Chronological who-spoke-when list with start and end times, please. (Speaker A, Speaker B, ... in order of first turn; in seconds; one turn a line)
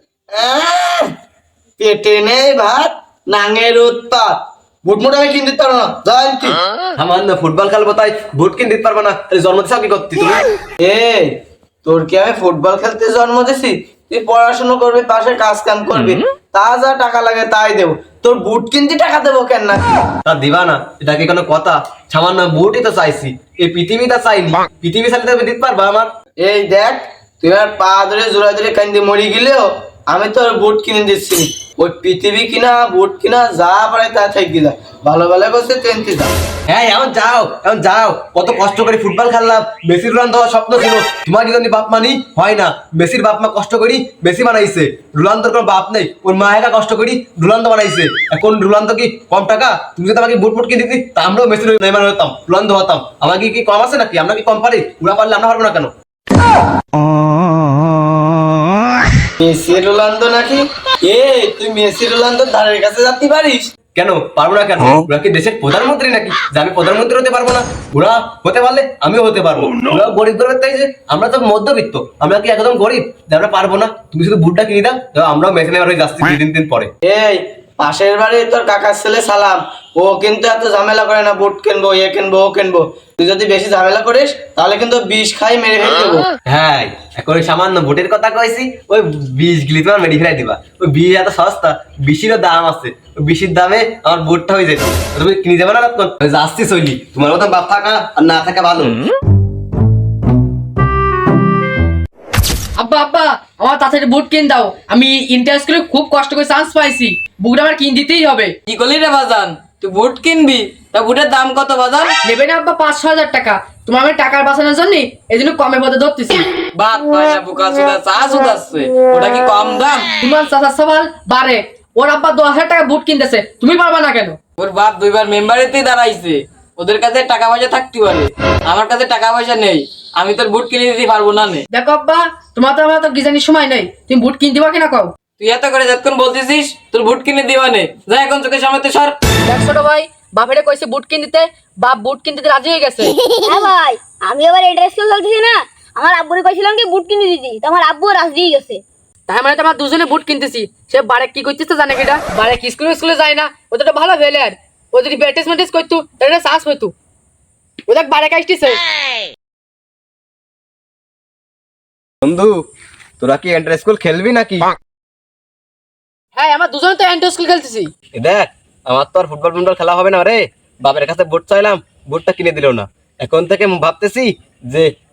Speaker A: 0.3-1.1
Speaker A: 1.8-4.3
Speaker A: 4.8-6.6
Speaker B: 7.0-10.4
Speaker A: 10.8-11.3
Speaker A: 11.8-19.9
Speaker B: 20.2-26.1
Speaker A: 26.4-36.3
Speaker B: 36.7-55.9
Speaker A: 59.4-63.7
Speaker B: 63.9-76.9
Speaker A: 77.0-86.2
Speaker B: 86.5-99.0
Speaker C: 102.8-108.5
Speaker D: 108.7-112.2
Speaker C: 112.2-116.5
Speaker D: 116.7-120.1
Speaker C: 120.2-124.4
Speaker D: 124.6-131.6
Speaker C: 131.7-135.1
Speaker D: 135.4-139.2
Speaker C: 139.5-143.1
Speaker E: 143.4-148.8
Speaker C: 149.3-156.9
Speaker C: 157.9-158.8
Speaker B: 162.2-162.7
Speaker B: 163.2-164.7
Speaker C: 166.3-167.9
Speaker B: 168.1-174.9